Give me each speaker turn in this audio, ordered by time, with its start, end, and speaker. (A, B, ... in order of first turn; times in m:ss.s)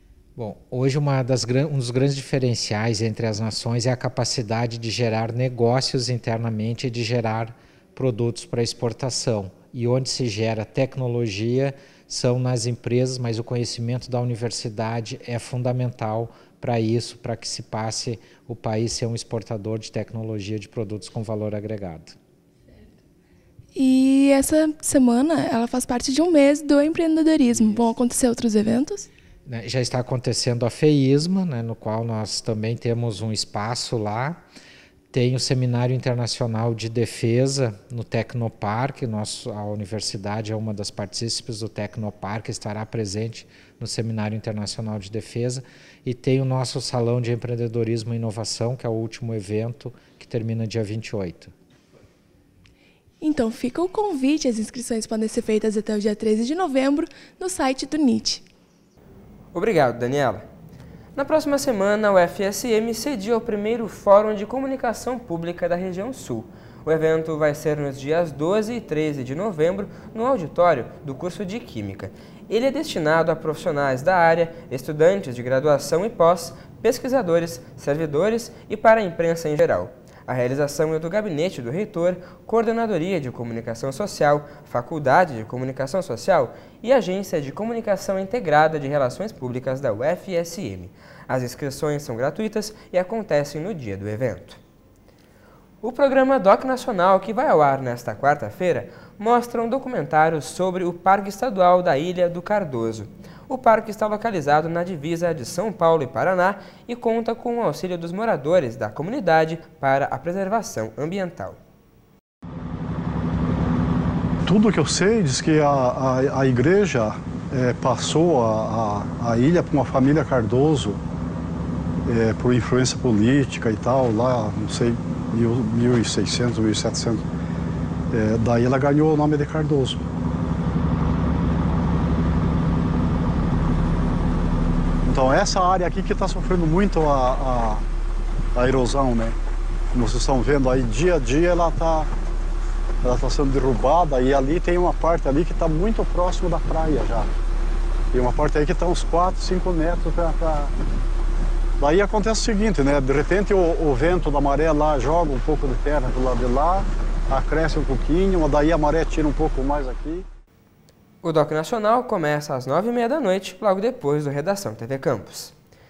0:00.4-0:22.2 A
0:23.7-0:29.1 B
0:29.4-0:34.4 A
0:35.1-0:51.5 A
0:53.2-0:58.4 B
0:59.5-1:00.4 C
1:01.1-1:34.6 C
1:35.8-1:51.6 C
1:54.4-2:01.0 D
2:02.0-2:07.2 D
2:08.1-2:10.0 D
2:15.0-2:17.8 D
2:18.5-2:19.3 D
2:19.9-2:22.1 D
2:23.0-2:27.3 D
2:28.1-2:30.7 D
2:31.8-2:40.2 D
2:41.2-2:45.5 C